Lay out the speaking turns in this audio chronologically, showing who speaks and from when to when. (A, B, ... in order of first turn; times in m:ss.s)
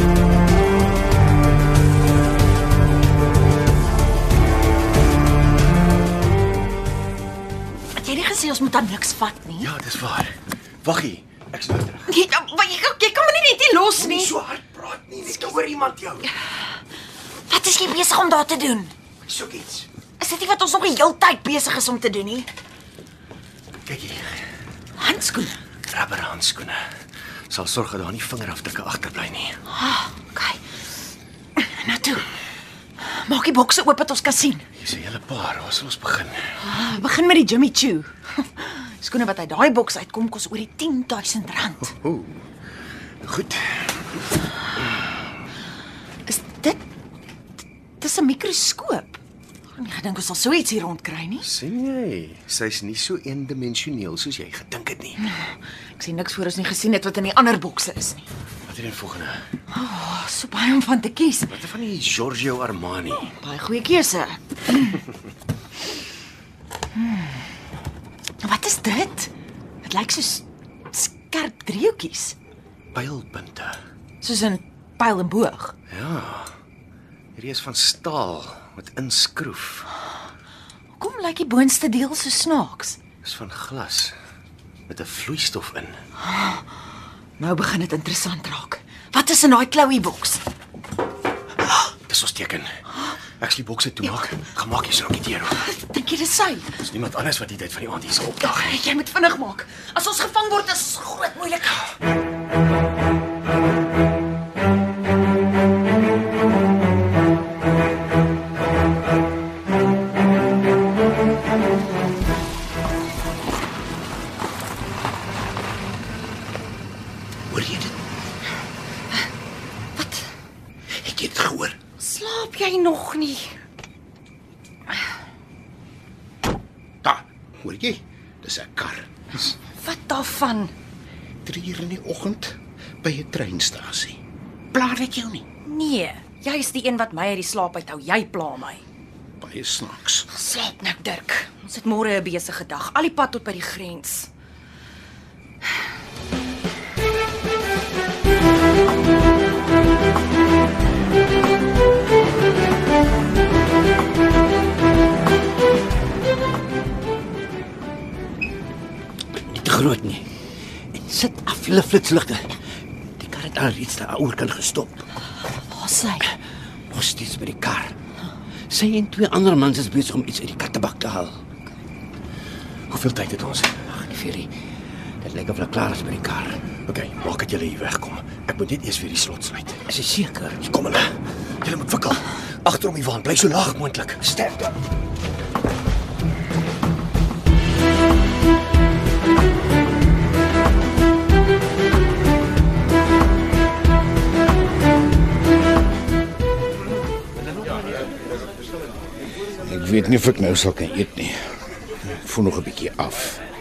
0:08.0-0:09.7 A
0:09.6-0:12.2 B
0:12.1-0:14.3 A
0:13.9-0:16.3 B
0:17.5-0:18.9 A
0:19.2-0:19.9 B
0:20.2-0:22.5 A
0:23.8-0:24.4 B
0:25.0-0:25.6 A
0:25.9-0:26.8 B
0:27.5-0:29.6 B
0:29.7-0:30.6 A
0:31.6-0:32.2 A
0:33.0-0:34.6 A
0:34.8-0:36.5 B
0:36.6-0:41.9 A
0:41.9-0:42.4 B
0:43.2-0:44.0 B
0:46.3-0:46.8 A
0:48.0-0:49.2 A
0:49.8-0:51.5 A
0:51.4-0:55.2 B
0:55.2-0:58.2 A
0:58.7-0:59.4 B
0:59.7-1:01.5 A
1:01.5-1:03.3 B
1:03.2-1:05.0 A
1:07.0-1:07.4 A
1:08.4-1:09.3 A
1:09.8-1:12.4 A
1:12.9-1:13.8 B
1:14.2-1:15.7 A
1:15.9-1:16.5 B
1:17.4-1:19.9 B
1:21.0-1:23.0 A
1:23.2-1:24.2 B
1:24.9-1:26.0 B
1:26.3-1:26.6 A
1:27.4-1:30.4 A
1:32.0-1:32.8 B
1:33.4-1:35.6 B
1:35.6-1:36.8 A
1:36.8-1:38.8 B
1:38.4-1:41.9 A
1:57.5-1:57.9 C
2:00.0-2:00.2 D
2:00.9-2:01.7 C
2:02.0-2:03.5 D
2:07.0-2:09.5 C
2:09.6-2:10.7 D
2:11.4-2:14.2 C
2:14.7-2:15.4 C
2:15.6-2:18.8 D
2:19.4-2:20.3 C
2:20.3-2:24.3 D
2:39.4-2:40.2 E
2:40.9-2:42.5 E
2:43.2-2:45.0 E
2:45.7-2:46.2 A
2:46.9-2:47.9 E
2:48.7-2:51.4 E
2:52.9-2:53.9 B
2:53.9-2:54.5 E
2:55.2-2:56.6 E
2:56.8-2:59.9 B
2:59.9-3:00.6 E
3:00.6-3:04.7 B
3:19.6-3:21.4 C
3:22.1-3:23.4 C